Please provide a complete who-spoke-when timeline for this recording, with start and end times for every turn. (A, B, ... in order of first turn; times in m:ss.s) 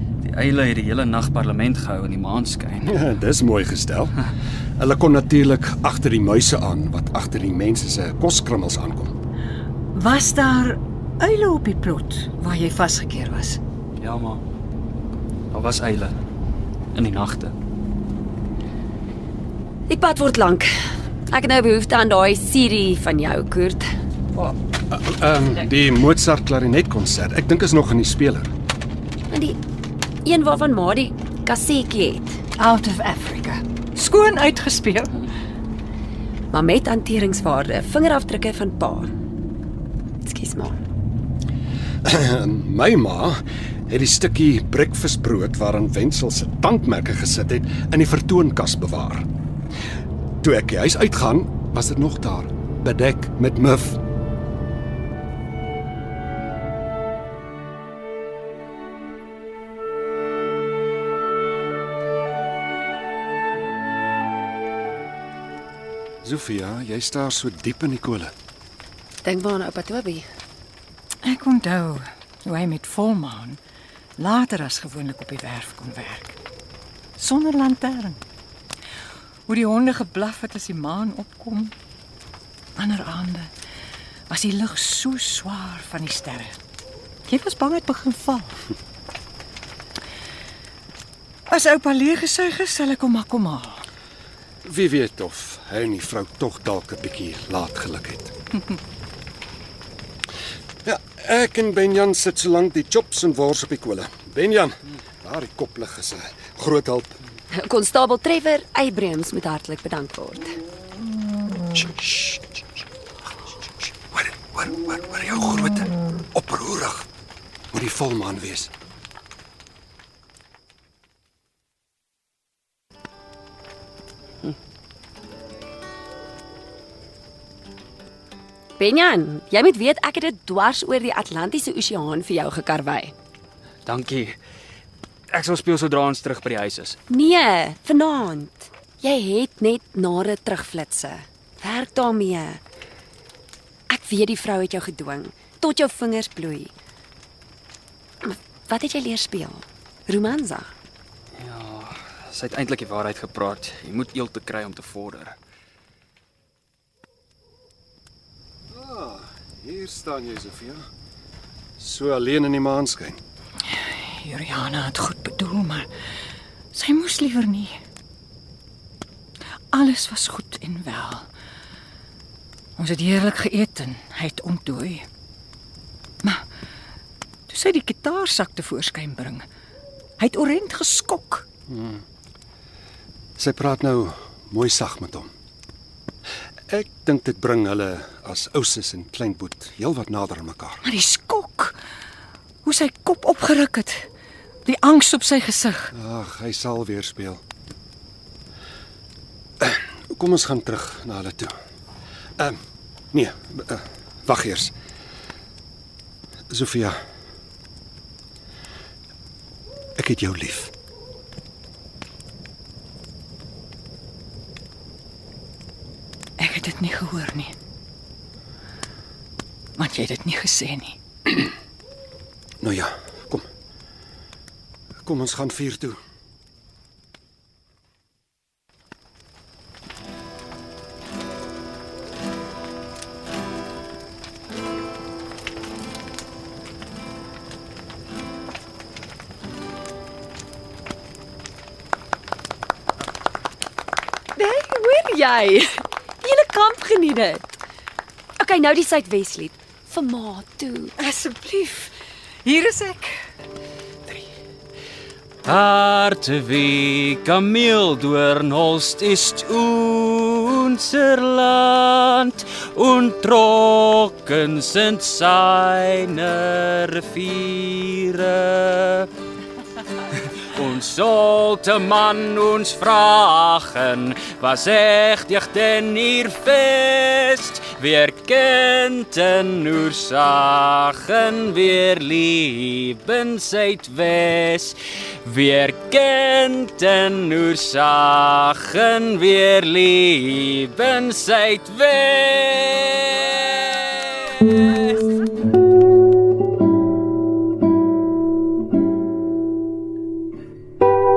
0:00.2-0:03.0 A
0:02.8-0:04.1 B
0:04.8-0:09.1 B
0:09.9-0:13.6 C
0:14.0-0:14.4 A
0:15.5-0:16.2 A
0:16.9-0:17.5 A
0:19.9-0:20.7 D
0:21.3-0:23.9 D
0:24.4-0:28.5 B
0:29.3-0:29.6 D
0:30.2-0:32.4 D
0:32.6-0:35.2 C
0:36.5-0:39.1 D
0:40.2-0:40.8 D
0:42.0-0:49.3 B
0:50.4-0:54.0 B
1:06.2-1:08.3 B
1:09.2-1:10.2 D
1:11.2-1:13.6 C
1:14.2-1:16.4 C
1:17.2-1:18.2 C
1:19.5-1:21.7 C
1:22.8-1:23.5 C
1:24.3-1:26.5 C
1:27.3-1:28.6 C
1:31.5-1:33.8 C
1:34.6-1:38.3 B
1:40.8-1:47.2 B
1:47.5-1:50.6 D
1:51.7-1:52.5 B
1:54.1-1:57.1 B
1:57.7-1:58.7 B
2:08.8-2:13.1 D
2:13.8-2:14.4 A
2:15.3-2:17.0 A
2:17.1-2:22.6 D
2:23.9-2:26.7 D
2:28.2-2:30.7 D
2:31.4-2:35.4 A
2:38.7-2:40.8 B
2:41.8-2:43.2 B
2:43.8-2:45.9 C
2:46.7-2:47.8 C
2:49.7-2:51.3 C
2:52.8-2:55.0 C
2:57.5-2:59.4 C
3:00.2-3:01.4 C
3:01.7-3:02.0 B
3:03.4-3:05.3 B
3:06.7-3:10.8 B
3:10.8-3:11.8 C
3:12.6-3:14.1 C
3:14.6-3:15.9 C
3:15.9-3:17.4 B
3:19.6-3:21.5 B
3:23.1-3:24.7 B
3:26.5-3:27.0 B
3:30.0-3:30.7 B
3:36.4-3:37.5 C
3:39.8-3:41.0 C
3:42.6-3:43.4 B
3:45.0-3:46.0 B
4:04.4-4:07.6 D
4:08.4-4:10.9 D
4:11.0-4:13.2 C
4:15.4-4:29.1 A
4:30.5-4:55.0 A